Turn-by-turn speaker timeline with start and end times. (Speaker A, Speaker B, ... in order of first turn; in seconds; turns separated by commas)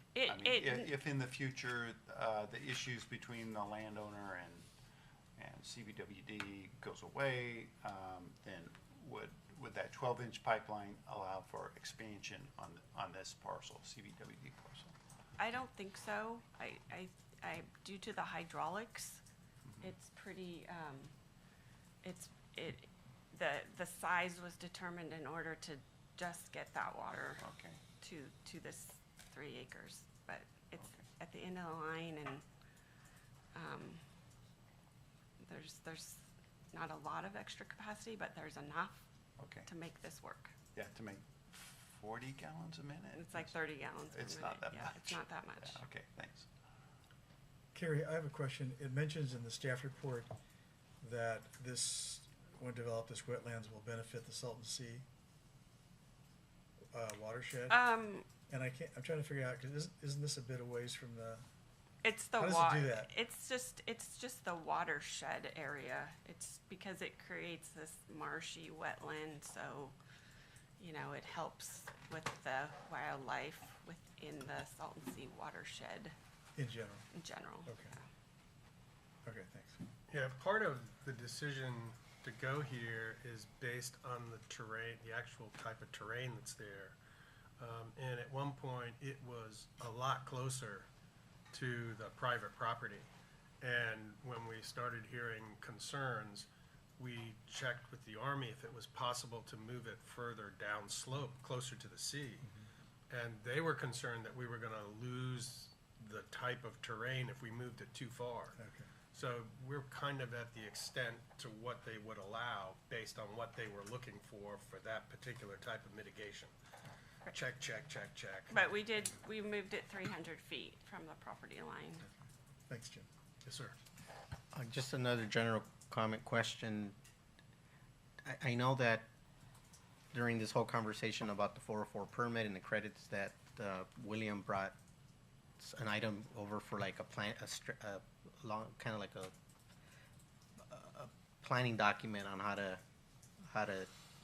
Speaker A: 0.1-0.9, Speaker B: 0.2-4.7, Speaker B: 5.4-14.9, Speaker A: 15.4-19.2, Speaker B: 19.6-19.9, Speaker A: 19.8-21.1, Speaker A: 22.0-27.4, Speaker B: 27.4-27.8, Speaker A: 28.0-32.4, Speaker A: 33.5-34.0, Speaker A: 35.4-39.0, Speaker B: 39.4-39.7, Speaker A: 39.6-40.5, Speaker B: 40.7-41.2, Speaker B: 41.8-43.6, Speaker A: 43.1-45.8, Speaker B: 44.1-46.5, Speaker C: 47.7-50.3, Speaker C: 51.0-55.0, Speaker C: 56.9-57.8, Speaker A: 57.7-58.2, Speaker C: 58.5-61.4, Speaker A: 62.0-69.9, Speaker C: 62.4-63.1, Speaker A: 70.8-76.1, Speaker C: 76.5-77.1, Speaker A: 77.1-77.9, Speaker C: 77.7-77.9, Speaker C: 79.2-79.8, Speaker D: 80.1-87.0, Speaker D: 87.6-90.9, Speaker D: 91.5-93.1, Speaker D: 93.6-102.5, Speaker D: 103.1-108.6, Speaker C: 108.6-108.9, Speaker D: 109.1-116.5, Speaker D: 117.3-118.7, Speaker A: 118.5-122.1, Speaker C: 122.7-123.1, Speaker D: 123.4-123.8, Speaker E: 124.5-127.0, Speaker E: 128.2-129.1, Speaker E: 130.1-134.8, Speaker E: 135.6-139.3, Speaker E: 140.7-142.8, Speaker E: 143.5-143.9